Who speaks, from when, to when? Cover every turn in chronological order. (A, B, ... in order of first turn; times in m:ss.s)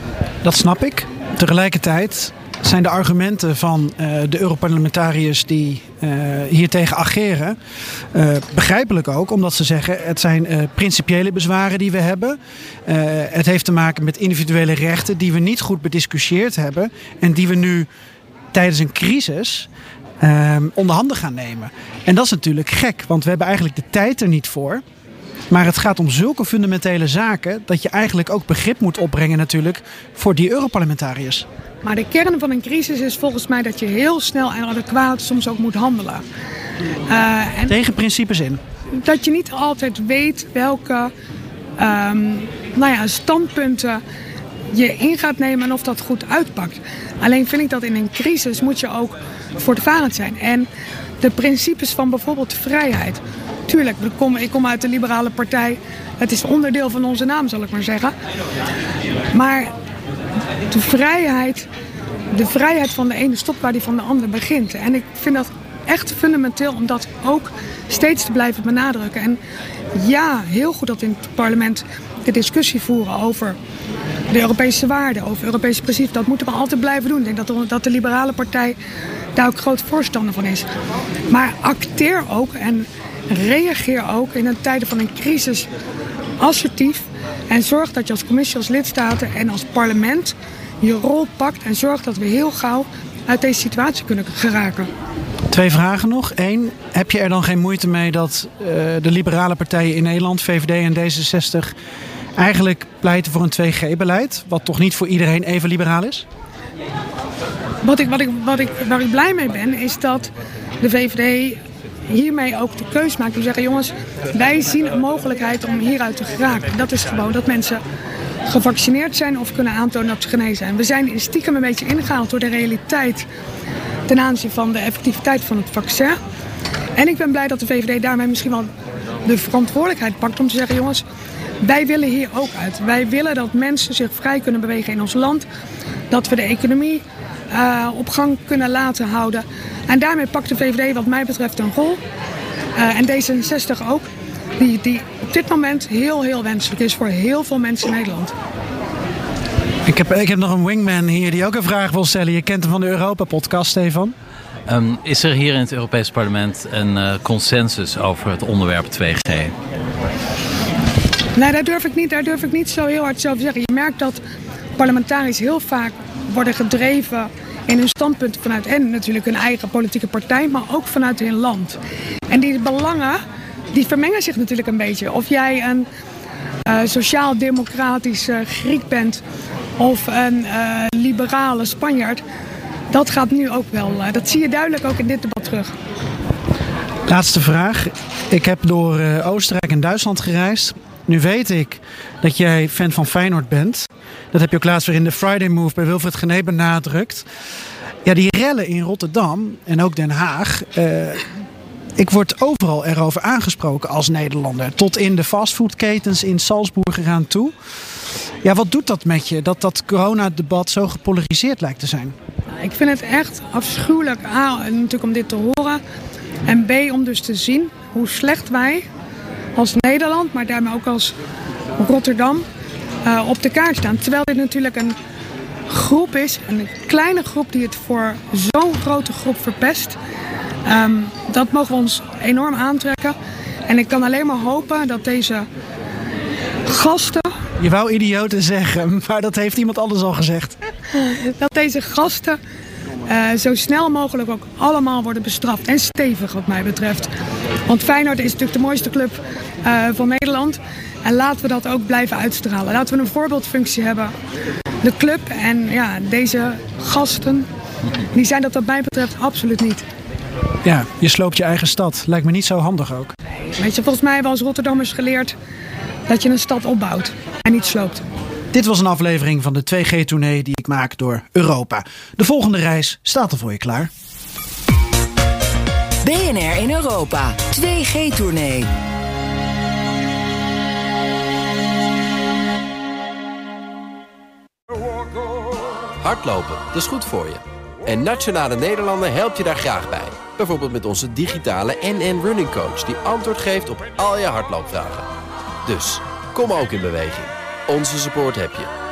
0:00.4-0:07.6 A
0:08.1-0:17.9 A
0:18.5-0:19.7 A
0:20.2-0:24.8 A
0:25.5-0:31.4 A
0:31.8-0:36.2 B
0:37.1-0:37.7 B
0:37.7-0:38.6 A
0:38.9-0:41.1 B
0:41.8-0:44.0 B
0:44.7-0:50.7 B
0:51.2-0:58.1 B
0:59.3-0:59.7 B
1:00.7-1:01.7 B
1:02.3-1:09.4 B
1:09.9-1:13.6 B
1:14.3-1:18.8 B
1:19.3-1:20.7 B
1:21.3-1:25.7 B
1:26.4-1:34.9 B
1:35.5-1:41.7 A
1:42.4-1:46.2 A
1:47.8-1:57.8 B
1:58.4-2:03.3 B
2:04.1-2:06.2 B
2:07.0-2:08.7 B
2:09.2-2:11.0 B
2:11.6-2:15.4 B
2:16.1-2:22.0 B
2:22.8-2:28.3 B
2:29.8-2:34.1 A
2:34.7-2:39.5 C
2:41.3-2:44.2 B
2:44.8-2:53.2 B
2:53.7-2:55.9 B
2:56.6-2:59.2 B
2:59.8-3:02.2 B
3:02.9-3:05.7 B
3:07.1-3:17.2 A
3:18.0-3:21.2 A
3:22.0-3:27.5 A
3:28.4-3:32.1 A
3:32.6-3:35.8 B
3:36.4-3:38.8 B
3:39.6-3:41.1 B
3:41.8-3:42.4 B
3:43.0-3:44.9 B
3:45.7-3:50.0 B
3:50.6-3:53.1 B
3:53.7-3:55.4 B
3:56.6-3:57.3 B
3:57.6-4:00.6 A
4:00.9-4:02.4 B
4:03.1-4:07.1 B
4:07.6-4:14.1 B
4:14.8-4:17.5 B
4:18.1-4:19.8 B
4:20.6-4:23.1 A
4:23.5-4:25.3 B
4:26.1-4:28.1 B
4:28.5-4:33.9 A
4:36.0-4:38.7 D
4:46.0-4:55.1 E
4:55.6-4:58.7 E